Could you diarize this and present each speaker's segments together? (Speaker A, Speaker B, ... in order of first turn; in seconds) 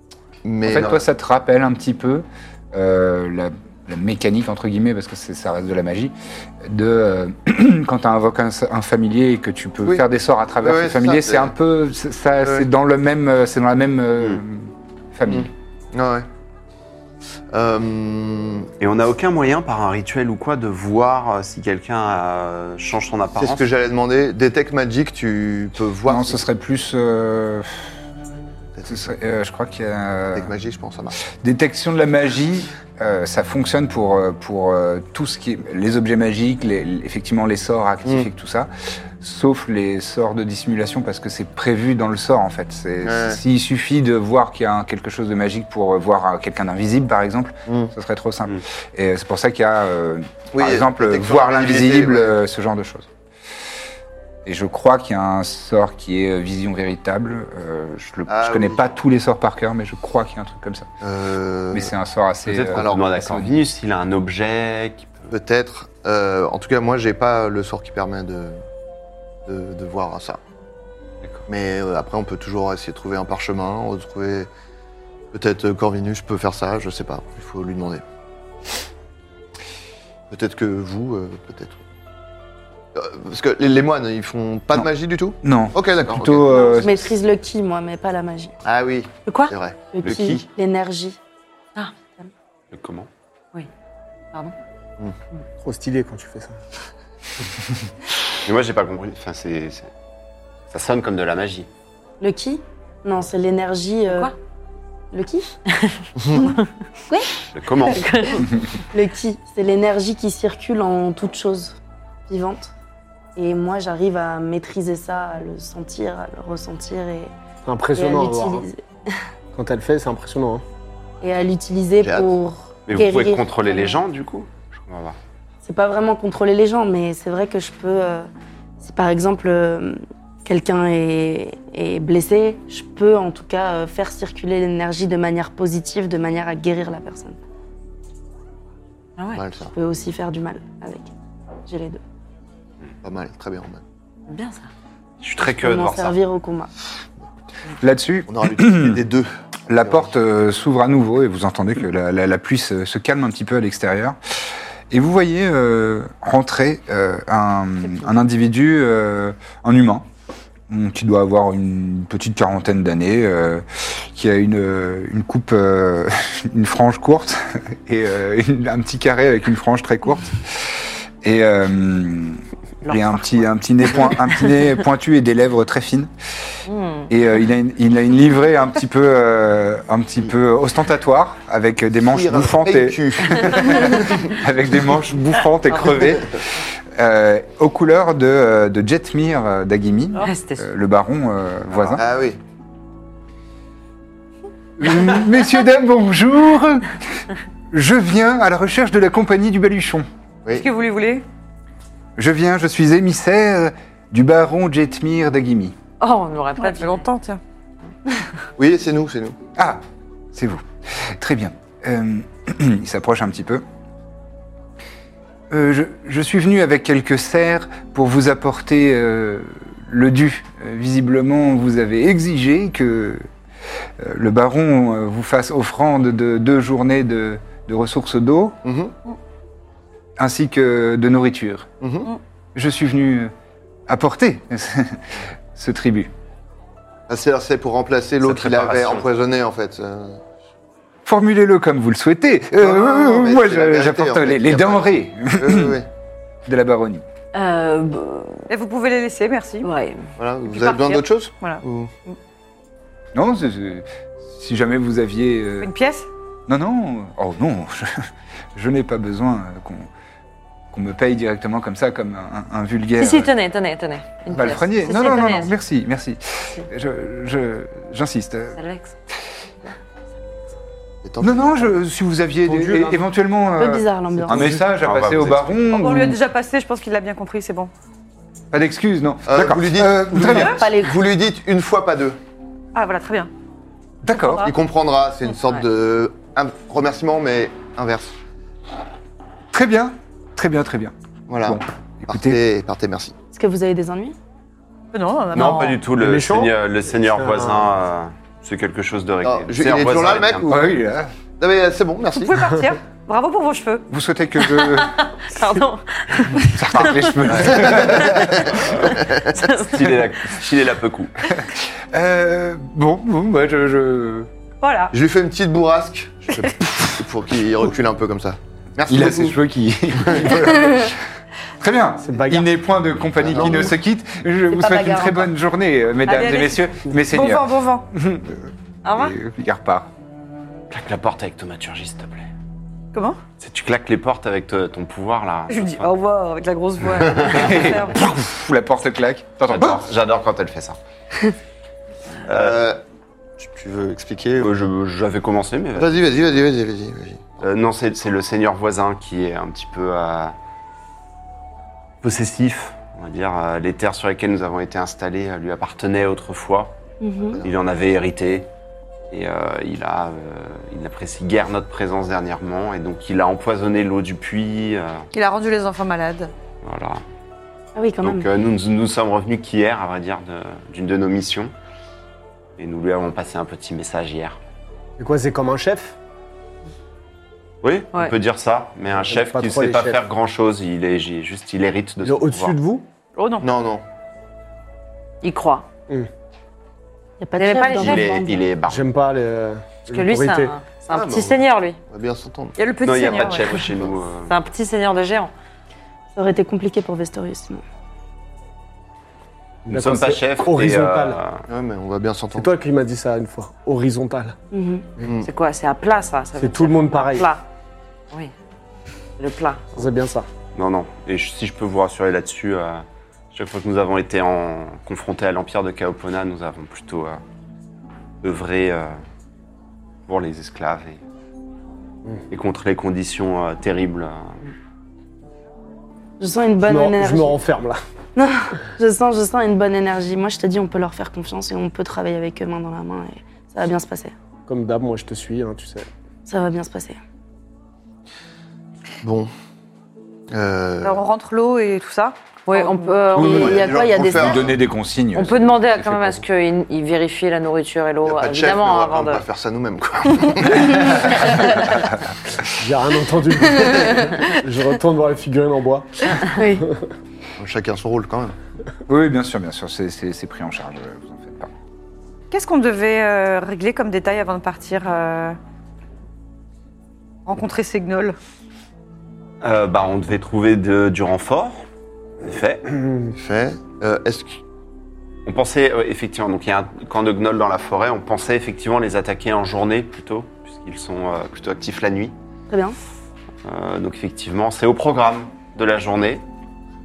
Speaker A: 0.4-1.0, 10.6-11.5, 15.3-16.3, 17.5-18.7, 23.4-26.4, 28.8-29.1, 30.3-31.2, 43.0-43.4, 47.7-47.9, 50.5-52.3, 58.3-58.9, 61.0-61.9, 62.7-63.0, 65.3-68.6, 69.5-70.4, 71.5-74.5, 75.3-78.0, 80.3-81.8, 82.9-86.6, 88.6-90.2, 122.0-122.3, 139.3-139.7, 143.0-143.8, 148.3-150.1, 182.1-184.2, 191.9-192.4, 208.6-209.3, 228.6-228.9, 231.8-232.1, 237.1-240.2, 242.6-245.8, 250.2-251.9, 271.0-271.7, 279.3-282.2, 284.4-288.1, 291.3-293.1, 299.2-300.7, 301.4-302.4, 307.4-308.5, 309.0-309.3, 314.9-319.3, 323.2-323.7, 342.3-342.8, 343.4-344.6, 345.8-347.4, 383.4-383.8, 390.9-392.6, 401.5-402.5, 405.0-405.3, 439.0-439.3, 440.3-441.0, 443.2-444.5, 448.0-451.6, 457.4-458.3, 473.1-474.4
Speaker B: 0.6-15.5, 26.1-27.9, 28.9-30.5, 31.3-53.1, 54.4-60.9, 61.7-63.5, 85.4-87.1, 147.8-149.0, 149.7-154.2, 154.9-160.1, 160.7-176.1, 177.1-186.4, 186.9-192.0, 194.8-197.0, 197.7-200.1, 202.2-205.8, 209.6-209.8, 210.3-213.6, 215.5-223.2, 224.0-228.6, 230.2-231.7, 232.5-233.3, 233.9-236.1, 241.1-245.8, 246.4-247.0, 253.1-255.7, 256.5-259.9, 260.7-263.3, 264.3-268.6, 271.2-276.2, 278.5-280.6, 284.0-284.5, 289.5-292.4, 300.5-301.1, 303.9-305.0, 306.4-308.7, 311.4-314.3, 318.9-321.0, 321.6-329.9, 337.3-339.8, 444.1-446.2, 450.7-451.2, 458.9-461.5
Speaker C: 18.8-23.6, 62.5-65.3, 90.0-90.4, 92.7-93.1, 98.4-99.9, 100.7-101.7, 107.5-108.1, 122.9-125.2, 145.2-146.2, 238.2-239.1, 274.6-275.6, 295.3-300.6, 308.5-308.9, 309.6-311.2, 330.7-332.3, 333.4-335.9, 339.5-340.8, 342.3-342.6, 344.4-346.1, 347.4-350.3, 352.0-356.7, 357.4-358.5, 359.1-365.1, 366.6-367.0, 368.0-371.5, 372.6-374.4, 377.6-382.6, 387.7-388.9, 392.8-394.3, 399.7-401.4, 410.5-417.2, 418.2-419.0, 420.1-421.0, 422.3-424.4, 469.4-471.6, 472.2-472.7, 475.2-482.1, 483.4-486.2
Speaker D: 86.5-88.5, 89.9-91.2, 102.2-104.3, 105.1-105.5, 108.9-111.8, 112.3-112.7, 113.3-117.3, 117.9-118.8, 121.2-124.0, 125.6-128.3, 128.8-137.4, 139.7-141.1, 141.7-142.0, 145.4-146.7, 273.6-274.5, 280.4-281.0, 293.3-294.1, 324.5-325.3, 357.0-357.4, 367.7-368.3, 387.2-388.4, 396.1-397.6, 404.5-404.9, 426.2-427.4, 428.1-434.1, 436.2-437.0, 443.1-444.5, 456.3-456.7, 482.5-482.8
Speaker E: 89.2-89.5, 104.1-104.3, 105.8-106.4, 107.8-108.5, 139.2-139.4, 144.3-144.7, 172.8-173.4, 176.7-177.1, 190.1-190.7, 206.0-207.1, 247.3-248.4, 249.6-250.1, 263.0-265.5, 268.6-268.9, 304.7-307.1, 309.4-309.8, 328.8-329.1, 385.2-385.7, 387.4-388.2, 389.9-391.8, 394.3-395.3, 405.2-407.4, 409.2-409.9, 442.4-443.7, 445.1-449.2
Speaker F: 95.6-96.6, 117.6-118.7, 119.5-120.6, 272.4-273.0, 295.9-297.7, 322.0-322.5, 375.0-375.9, 379.0-380.0, 382.0-382.8, 388.6-390.5, 399.6-401.2, 402.3-404.4, 406.4-407.3, 409.8-410.3, 426.6-427.8, 434.5-435.9, 452.6-456.8
Speaker G: 200.5-201.2, 206.6-207.4, 248.5-249.7, 250.5-252.1, 255.6-256.1, 275.7-277.7, 282.7-283.3, 284.1-284.5, 294.9-295.8, 302.1-303.8, 314.6-314.9, 326.0-327.9, 332.9-333.2, 335.5-338.0, 365.1-366.3, 383.1-383.5, 392.6-393.7, 440.8-443.0, 462.3-465.4, 467.2-468.2